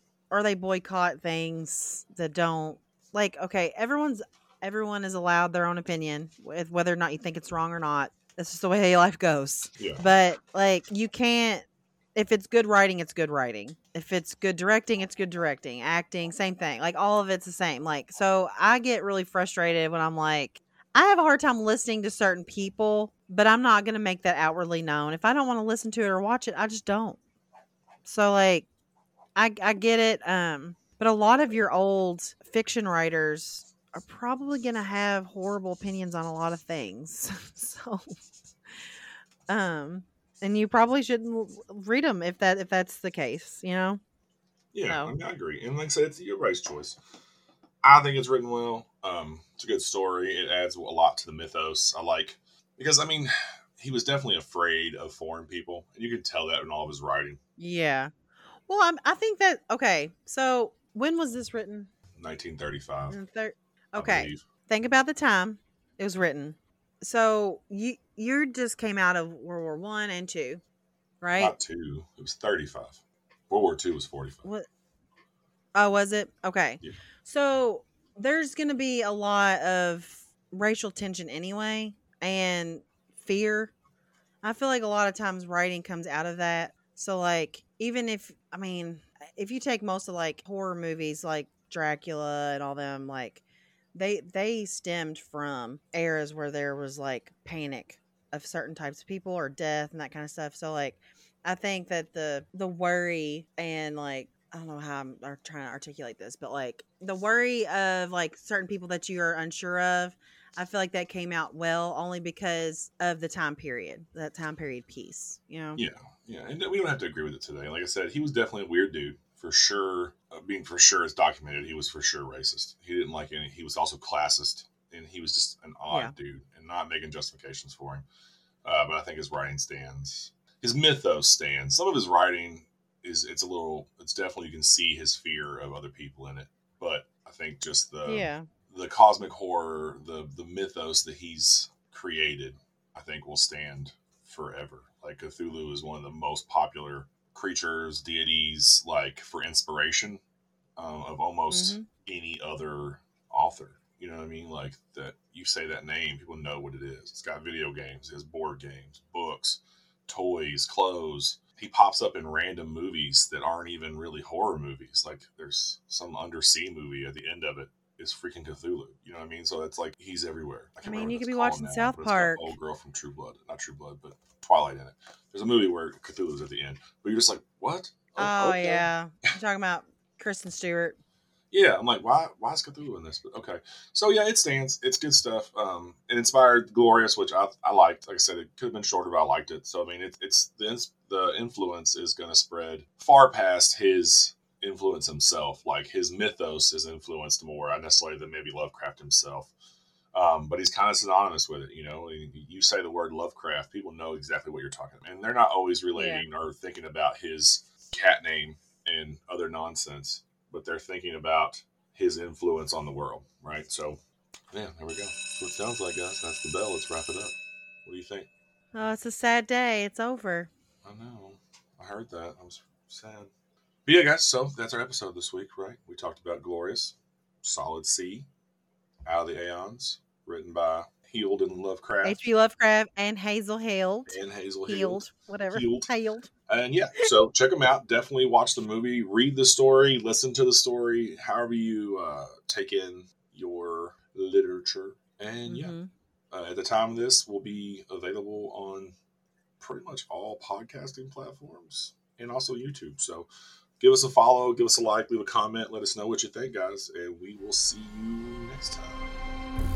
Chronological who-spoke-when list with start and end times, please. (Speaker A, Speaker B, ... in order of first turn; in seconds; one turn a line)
Speaker A: 0.3-27.2
Speaker B: 9.8-10.0
Speaker A: 28.0-28.7
Speaker A: 29.3-38.1
Speaker A: 39.5-44.0
Speaker B: 44.7-47.0
Speaker A: 44.9-45.1
Speaker B: 47.8-57.4
Speaker A: 57.6-58.1
Speaker A: 58.7-61.9
Speaker B: 62.1-63.2
Speaker A: 63.1-70.6
Speaker B: 64.0-64.4
Speaker A: 71.2-71.5
Speaker B: 71.3-74.4
Speaker A: 75.7-83.7
Speaker A: 84.4-93.4
Speaker A: 93.9-115.8
Speaker B: 115.8-128.1
Speaker B: 128.6-150.2
Speaker A: 138.1-138.5
Speaker B: 150.8-178.9
Speaker A: 151.5-151.9
Speaker A: 170.8-172.5
Speaker A: 178.2-181.0
Speaker B: 181.5-199.5
Speaker B: 200.1-214.0
Speaker A: 205.9-206.2
Speaker B: 214.5-218.3
Speaker A: 218.7-220.5
Speaker B: 220.8-223.3
Speaker B: 223.8-228.3
Speaker B: 229.1-232.3
Speaker A: 232.0-236.3
Speaker B: 234.1-235.9
Speaker B: 236.5-245.7
Speaker A: 245.5-245.9
Speaker B: 246.3-248.9
Speaker B: 249.6-253.3
Speaker B: 253.8-259.1